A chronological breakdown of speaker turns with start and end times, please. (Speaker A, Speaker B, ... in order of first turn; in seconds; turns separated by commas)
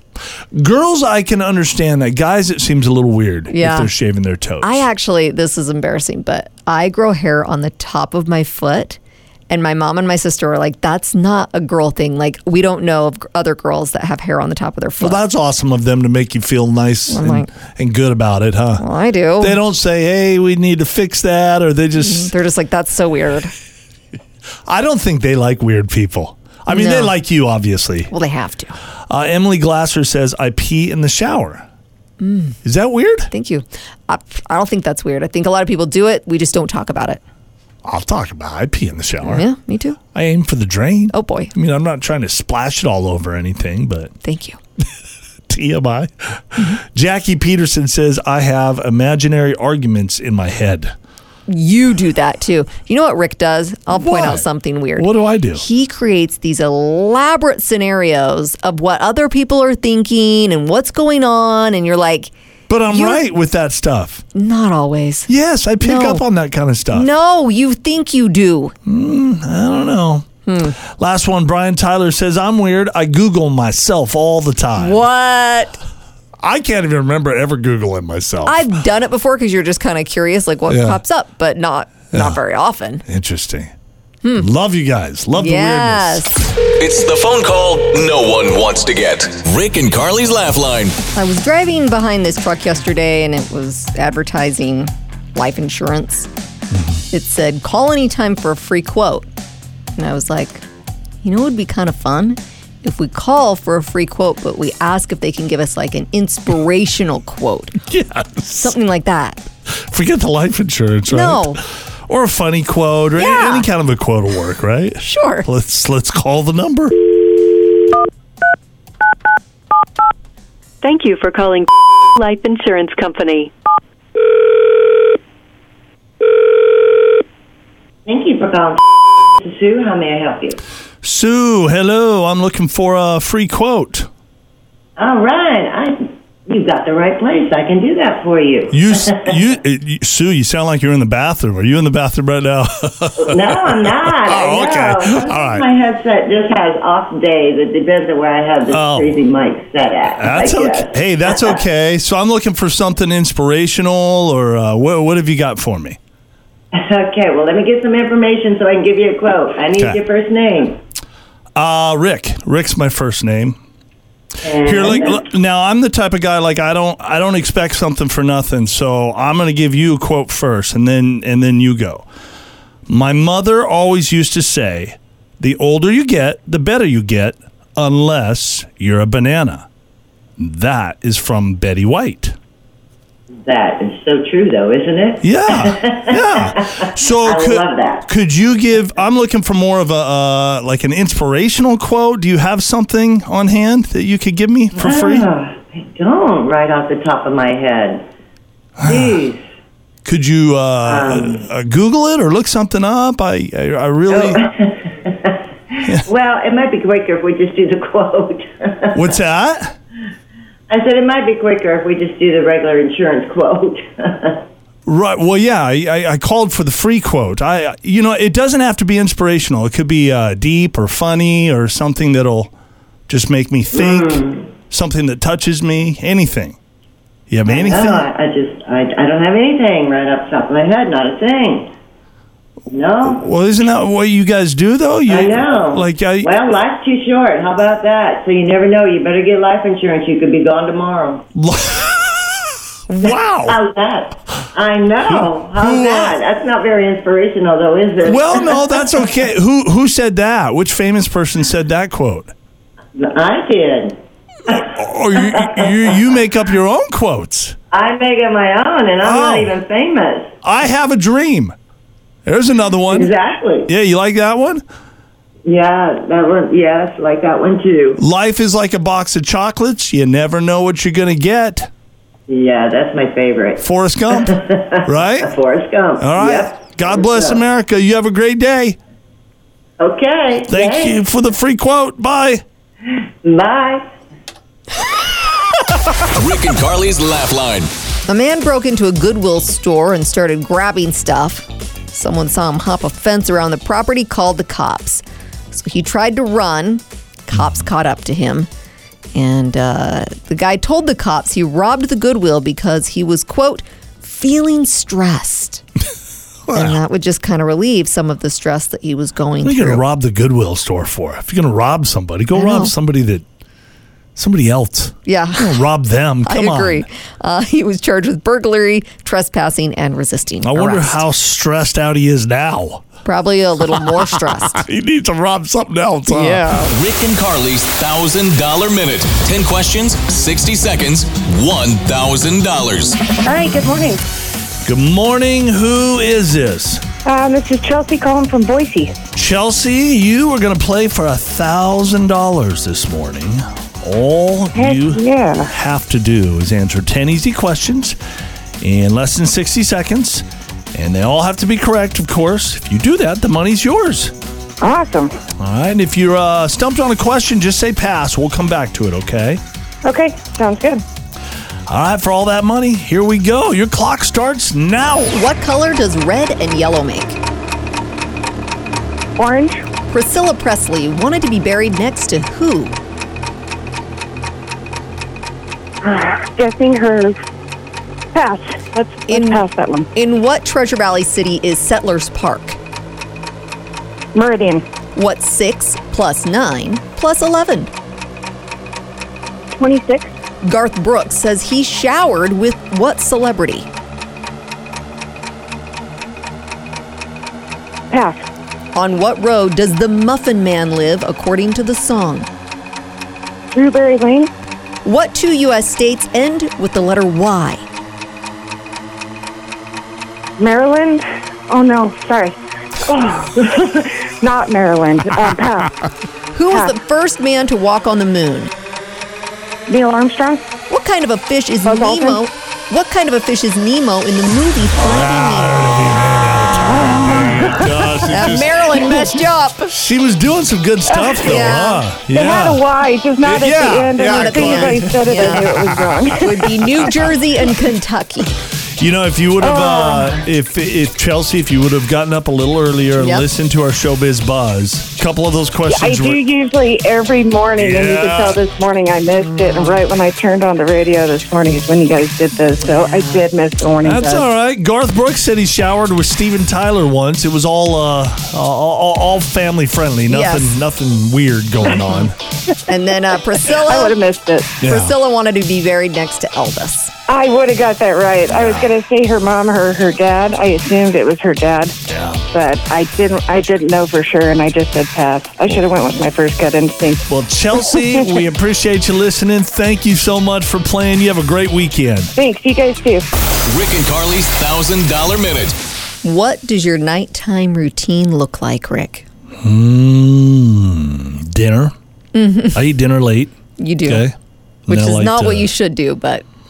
Speaker A: 0.5-4.9, Speaker B: 3.5-3.9, Speaker B: 4.6-15.2, Speaker A: 15.0-18.8, Speaker B: 17.1-17.5, Speaker B: 18.8-19.6, Speaker A: 19.4-22.3, Speaker B: 22.0-23.5, Speaker A: 24.7-28.1, Speaker B: 26.7-27.1, Speaker B: 28.1-28.8, Speaker A: 29.1-31.6, Speaker B: 32.2-32.6, Speaker A: 32.6-33.3, Speaker B: 33.3-37.2, Speaker A: 37.8-39.5, Speaker B: 39.2-40.0, Speaker A: 40.1-44.1, Speaker B: 41.1-41.5, Speaker B: 44.2-44.6, Speaker A: 45.5-51.0, Speaker B: 51.5-62.3, Speaker A: 53.9-55.6, Speaker A: 62.7-64.2, Speaker B: 62.9-63.2, Speaker B: 64.3-65.3, Speaker A: 65.3-67.1, Speaker B: 65.8-66.2, Speaker B: 66.9-68.7, Speaker A: 68.9-70.3, Speaker B: 70.5-70.8, Speaker A: 70.8-75.0, Speaker B: 74.8-75.8, Speaker A: 76.4-78.7, Speaker B: 78.5-83.0, Speaker A: 80.7-81.0, Speaker A: 82.1-82.4, Speaker A: 83.1-83.7, Speaker B: 84.2-84.5, Speaker A: 84.4-86.3, Speaker B: 85.3-86.4, Speaker C: 86.8-91.0, Speaker B: 91.1-96.3, Speaker B: 97.1-99.3, Speaker B: 100.0-100.6, Speaker B: 101.2-107.8, Speaker A: 107.9-108.8, Speaker B: 108.6-109.4, Speaker A: 109.7-117.0, Speaker B: 111.1-111.6, Speaker B: 113.2-113.7, Speaker B: 115.0-115.5, Speaker D: 120.8-123.5, Speaker E: 128.1-130.6, Speaker A: 131.0-134.1, Speaker E: 135.0-139.3, Speaker A: 138.7-145.7, Speaker E: 143.2-151.6, Speaker A: 148.7-149.2, Speaker A: 150.2-156.0, Speaker E: 156.7-160.8, Speaker A: 161.6-163.6, Speaker E: 164.4-165.2, Speaker A: 164.5-172.1, Speaker A: 172.9-179.7, Speaker A: 180.4-182.4, Speaker E: 183.4-188.1, Speaker A: 185.2-195.3, Speaker E: 194.8-198.1, Speaker A: 198.8-199.2, Speaker E: 198.8-199.5, Speaker A: 200.1-204.4, Speaker E: 200.8-201.4, Speaker E: 204.1-209.1, Speaker A: 208.9-209.8, Speaker E: 210.7-214.4, Speaker A: 214.9-222.5, Speaker A: 223.1-226.6, Speaker E: 223.8-224.5, Speaker A: 227.3-228.1, Speaker E: 227.5-231.7, Speaker E: 232.7-233.2, Speaker A: 233.1-236.5, Speaker E: 235.1-241.2, Speaker A: 241.3-243.6, Speaker E: 243.0-249.0, Speaker A: 245.1-246.2, Speaker A: 248.0-252.3, Speaker E: 253.0-255.8, Speaker A: 254.5-257.6, Speaker E: 257.7-260.3, Speaker A: 259.0-259.6, Speaker A: 260.4-261.6, Speaker A: 262.2-263.1, Speaker E: 262.9-263.7, Speaker A: 263.7-264.6, Speaker E: 265.4-268.0, Speaker A: 268.0-271.7, Speaker E: 272.3-273.6, Speaker A: 273.6-275.3, Speaker E: 274.2-277.4, Speaker A: 276.0-278.8, Speaker E: 279.8-281.0, Speaker A: 280.5-282.4, Speaker E: 282.9-283.9, Speaker C: 286.1-287.7, Speaker B: 288.1-298.5, Speaker B: 299.1-305.6, Speaker A: 306.5-306.8, Speaker B: 306.5-309.8, Speaker A: 309.4-313.2, Speaker B: 312.3-312.8, Speaker A: 314.2-316.9, Speaker B: 315.1-315.6, Speaker B: 316.2-321.0, Speaker A: 320.4-322.9, Speaker B: 323.1-324.6, Speaker A: 323.7-326.5, Speaker B: 326.1-326.8, Speaker C: 326.7-333.0, Speaker F: 333.2-334.0, Speaker A: 334.6-336.8, Speaker F: 337.1-339.0, Speaker A: 339.1-348.0, Speaker F: 344.6-345.5, Speaker A: 348.6-354.1, Speaker F: 354.6-355.1, Speaker A: 355.4-359.4, Speaker F: 359.8-360.8, Speaker A: 361.7-365.2, Speaker B: 365.1-367.2, Speaker F: 369.2-369.6, Speaker B: 369.9-372.8, Speaker F: 375.8-377.2, Speaker F: 378.1-379.9, Speaker B: 379.1-379.4, Speaker B: 379.9-382.6, Speaker F: 384.1-384.6, Speaker B: 384.9-387.7, Speaker F: 389.6-390.1, Speaker B: 390.4-393.7, Speaker F: 397.9-398.2, Speaker B: 398.8-402.3, Speaker F: 403.5-404.3, Speaker B: 404.9-407.6, Speaker F: 410.4-415.8, Speaker B: 416.3-418.5, Speaker F: 416.5-416.8, Speaker F: 419.7-420.5, Speaker B: 420.7-425.6, Speaker F: 421.6-422.2, Speaker A: 424.8-432.6, Speaker F: 426.9-427.5, Speaker B: 428.1-429.7, Speaker F: 430.9-431.4, Speaker B: 431.2-431.9, Speaker F: 432.1-436.4, Speaker A: 433.2-437.0, Speaker B: 434.0-435.5, Speaker B: 436.1-438.3, Speaker A: 438.8-446.2, Speaker F: 439.4-440.2, Speaker B: 443.0-443.3, Speaker F: 445.7-454.3, Speaker A: 447.6-448.4, Speaker B: 452.7-453.2, Speaker A: 453.8-462.2, Speaker B: 460.1-460.6, Speaker B: 462.7-464.0, Speaker F: 463.5-464.6, Speaker A: 464.6-465.0, Speaker B: 464.6-466.9, Speaker F: 467.1-471.8, Speaker A: 468.2-468.7, Speaker A: 471.9-472.2, Speaker F: 472.3-477.1, Speaker A: 477.1-482.1, Speaker F: 477.6-478.2, Speaker F: 482.2-483.1, Speaker C: 483.5-485.6, Speaker B: 486.0-489.1, Speaker A: 489.4-491.7, Speaker B: 492.1-492.6, Speaker A: 492.5-494.1, Speaker B: 493.6-494.0, Speaker A: 494.7-495.5, Speaker B: 494.7-496.2